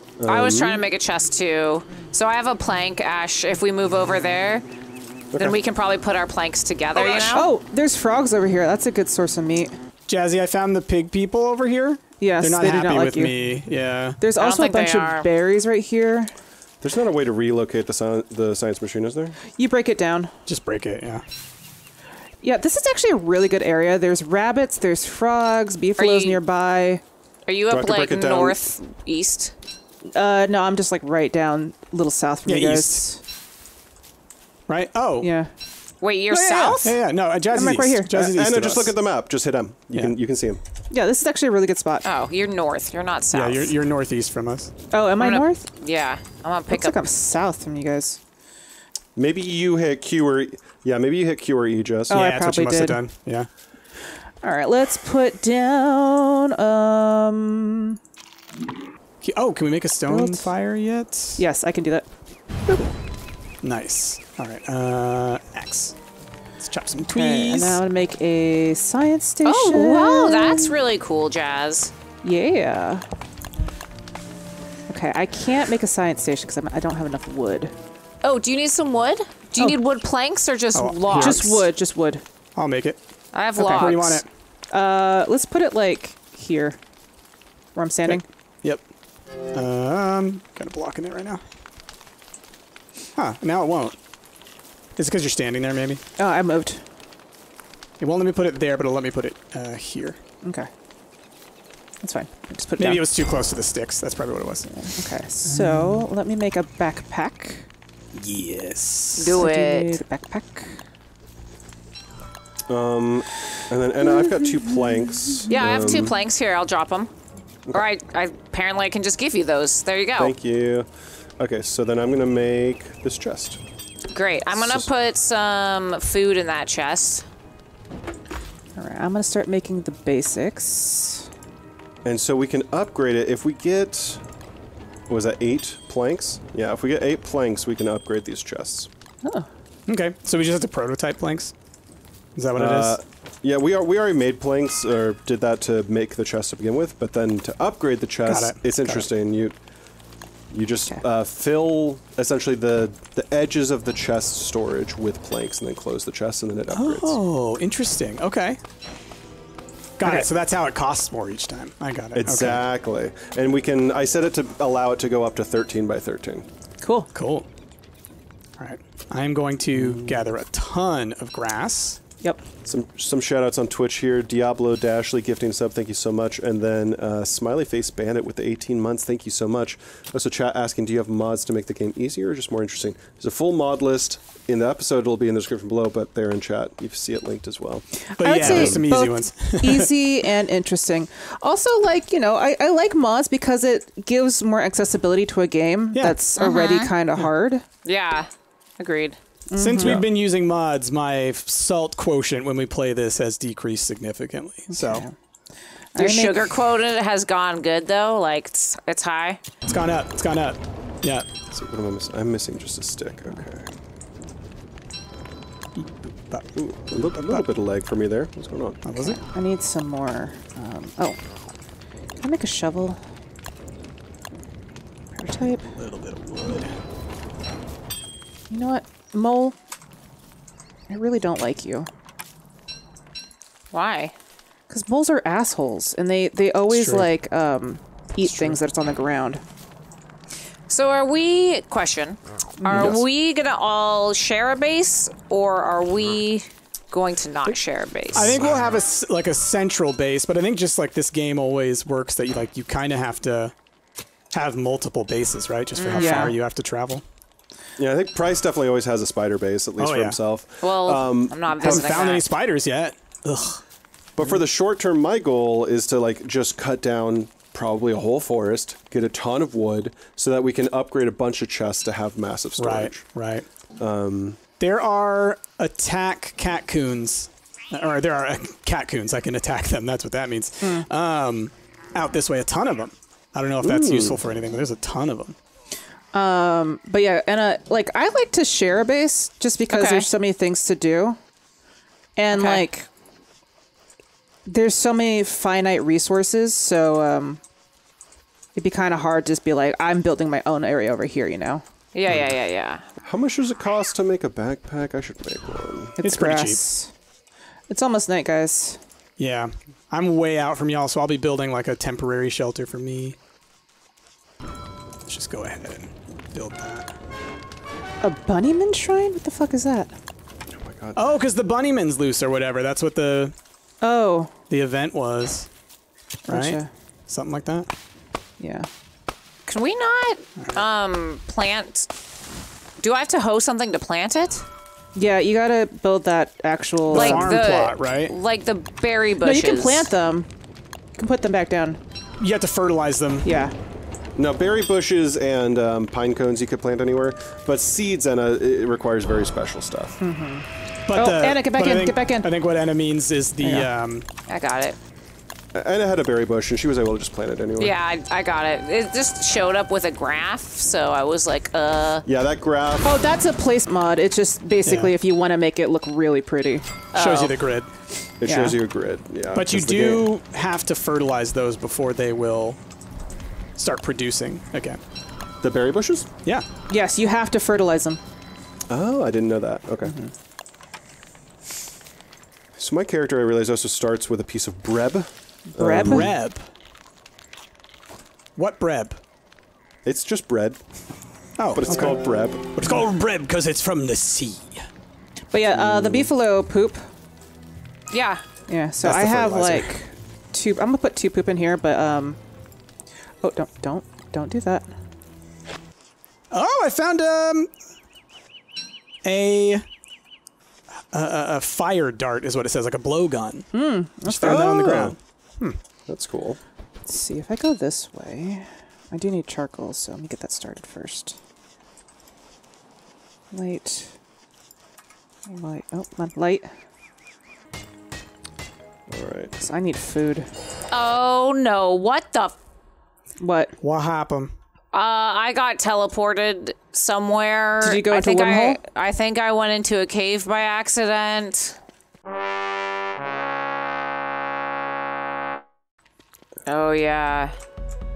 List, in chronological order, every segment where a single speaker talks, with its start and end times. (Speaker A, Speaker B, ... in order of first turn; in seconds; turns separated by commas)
Speaker A: 0.2-0.8, Speaker B: 0.3-4.7, Speaker A: 5.3-5.6, Speaker B: 5.3-7.5, Speaker C: 7.0-9.7, Speaker D: 10.1-14.2, Speaker C: 12.2-13.4, Speaker C: 14.2-16.3, Speaker B: 14.4-15.3, Speaker A: 16.8-19.4, Speaker C: 19.6-20.3, Speaker D: 20.5-21.2, Speaker C: 22.4-27.0, Speaker B: 26.0-26.4, Speaker B: 27.5-29.5, Speaker A: 27.7-28.6, Speaker C: 30.1-33.2, Speaker D: 32.5-33.0, Speaker D: 34.7-35.3, Speaker C: 35.2-35.5, Speaker B: 36.0-37.0, Speaker D: 36.3-38.9, Speaker C: 37.5-38.1, Speaker A: 38.1-40.6, Speaker C: 40.9-42.1, Speaker B: 42.0-43.7, Speaker D: 43.3-44.7, Speaker C: 44.9-45.7, Speaker B: 45.2-47.0, Speaker C: 46.7-48.2, Speaker A: 49.2-52.2, Speaker D: 52.1-53.5, Speaker C: 52.1-53.0, Speaker C: 54.4-58.0, Speaker D: 59.2-61.4, Speaker C: 60.1-60.5, Speaker C: 61.4-62.1, Speaker D: 63.6-66.0, Speaker D: 66.6-67.8, Speaker C: 67.1-70.7, Speaker B: 69.5-71.9, Speaker C: 72.2-73.0, Speaker C: 74.9-77.7, Speaker B: 78.2-81.7, Speaker D: 80.7-81.5, Speaker C: 81.1-82.2, Speaker D: 82.6-83.0, Speaker B: 83.3-84.2, Speaker C: 83.6-83.9, Speaker D: 83.7-84.3, Speaker C: 84.7-86.8, Speaker C: 87.8-88.2, Speaker D: 88.1-88.8, Speaker D: 89.5-91.4, Speaker D: 93.2-94.0, Speaker D: 95.0-96.0, Speaker C: 96.2-96.8, Speaker D: 98.0-100.2, Speaker C: 100.4-100.7, Speaker C: 102.0-103.0, Speaker D: 102.8-106.1, Speaker C: 104.8-107.7, Speaker D: 108.1-109.5, Speaker B: 109.2-110.0, Speaker C: 109.3-110.8, Speaker A: 112.7-116.2, Speaker B: 115.5-117.1, Speaker B: 117.7-120.3, Speaker A: 120.2-123.6, Speaker B: 124.1-127.3, Speaker A: 124.5-124.9, Speaker C: 128.8-131.3, Speaker A: 132.1-134.2, Speaker A: 135.1-138.9, Speaker C: 139.2-139.5, Speaker D: 139.9-141.5, Speaker D: 142.3-143.0, Speaker A: 142.6-149.6, Speaker D: 148.3-149.1, Speaker A: 150.5-157.2, Speaker D: 156.7-158.6, Speaker D: 160.0-162.6, Speaker C: 160.0-160.3, Speaker A: 162.2-166.5, Speaker C: 166.8-167.1, Speaker D: 167.1-167.5, Speaker D: 168.6-172.0, Speaker A: 169.8-170.3, Speaker A: 172.7-188.8, Speaker C: 188.0-197.6, Speaker D: 188.2-189.9, Speaker D: 195.9-196.2, Speaker B: 196.4-196.9, Speaker B: 197.8-199.2, Speaker C: 199.5-200.1, Speaker D: 199.6-205.1, Speaker C: 204.7-205.1, Speaker C: 205.9-206.6, Speaker B: 206.0-209.4, Speaker D: 209.7-211.3, Speaker A: 211.5-213.7, Speaker D: 215.8-217.4, Speaker A: 216.6-218.8, Speaker D: 218.8-219.2, Speaker C: 219.0-221.2, Speaker C: 222.2-223.0, Speaker C: 225.1-225.7, Speaker D: 225.8-226.7, Speaker C: 228.5-229.6, Speaker C: 230.9-231.9, Speaker B: 233.7-234.1, Speaker C: 234.7-239.4, Speaker D: 236.7-237.1, Speaker D: 238.2-238.6, Speaker B: 240.7-248.4, Speaker D: 242.7-243.0, Speaker D: 248.1-253.5, Speaker D: 254.3-257.0, Speaker B: 255.8-256.3, Speaker C: 255.9-256.4, Speaker A: 257.8-262.2, Speaker D: 259.8-260.2, Speaker B: 260.6-262.3, Speaker D: 261.6-263.6, Speaker A: 264.2-273.1, Speaker D: 272.6-273.5, Speaker A: 273.8-274.4, Speaker D: 274.6-285.4, Speaker C: 280.6-280.9, Speaker A: 283.6-284.2, Speaker C: 286.1-291.2, Speaker B: 289.7-290.1, Speaker C: 292.2-292.9, Speaker B: 292.3-292.6, Speaker C: 294.5-297.4, Speaker C: 298.6-301.6, Speaker B: 301.9-302.9, Speaker A: 302.1-302.4, Speaker A: 303.0-306.0, Speaker C: 306.0-306.9, Speaker D: 306.0-306.6, Speaker C: 307.7-308.8, Speaker D: 309.2-313.2, Speaker D: 315.1-316.9, Speaker C: 318.0-319.9, Speaker A: 320.5-321.1, Speaker D: 321.0-323.4, Speaker C: 323.8-324.3, Speaker D: 324.5-325.5, Speaker C: 326.3-326.7, Speaker D: 326.3-327.7, Speaker C: 328.4-328.7, Speaker B: 329.5-331.9, Speaker B: 332.8-334.4, Speaker C: 334.9-337.4, Speaker D: 336.9-338.1, Speaker B: 336.9-339.9, Speaker C: 339.2-340.3, Speaker C: 341.0-341.8, Speaker D: 342.2-343.3, Speaker C: 343.2-343.5, Speaker A: 344.2-350.0, Speaker C: 350.0-352.3, Speaker D: 350.9-354.1, Speaker C: 353.4-353.7, Speaker B: 354.3-354.8, Speaker A: 355.5-357.8, Speaker B: 357.6-362.1, Speaker A: 362.1-362.9, Speaker C: 362.8-366.6, Speaker D: 364.6-364.9, Speaker B: 366.9-367.4, Speaker D: 366.9-367.7, Speaker A: 368.2-370.1, Speaker C: 368.2-368.6, Speaker D: 369.3-372.6, Speaker D: 373.6-374.8, Speaker A: 375.4-376.1, Speaker C: 376.7-378.0, Speaker A: 378.7-379.9, Speaker C: 379.8-380.1, Speaker A: 382.6-386.2, Speaker C: 385.5-386.1, Speaker D: 385.8-386.5, Speaker D: 388.4-389.0, Speaker A: 389.9-390.6, Speaker D: 391.4-394.6, Speaker A: 391.5-392.6, Speaker C: 395.3-396.8, Speaker A: 395.5-396.1, Speaker B: 397.9-398.2, Speaker C: 398.5-402.2, Speaker D: 398.8-399.7, Speaker C: 403.2-404.7, Speaker D: 406.3-407.5, Speaker D: 409.1-409.6, Speaker D: 410.9-413.5, Speaker C: 413.5-414.7, Speaker D: 414.1-415.6, Speaker A: 414.2-415.0, Speaker A: 415.9-416.4, Speaker C: 416.9-421.2, Speaker C: 423.3-424.0, Speaker C: 425.3-426.5, Speaker A: 428.9-429.4, Speaker C: 429.4-430.3, Speaker B: 430.7-432.4, Speaker C: 433.2-433.6, Speaker D: 433.6-434.3, Speaker B: 434.7-441.6, Speaker C: 437.6-438.6, Speaker B: 446.5-447.3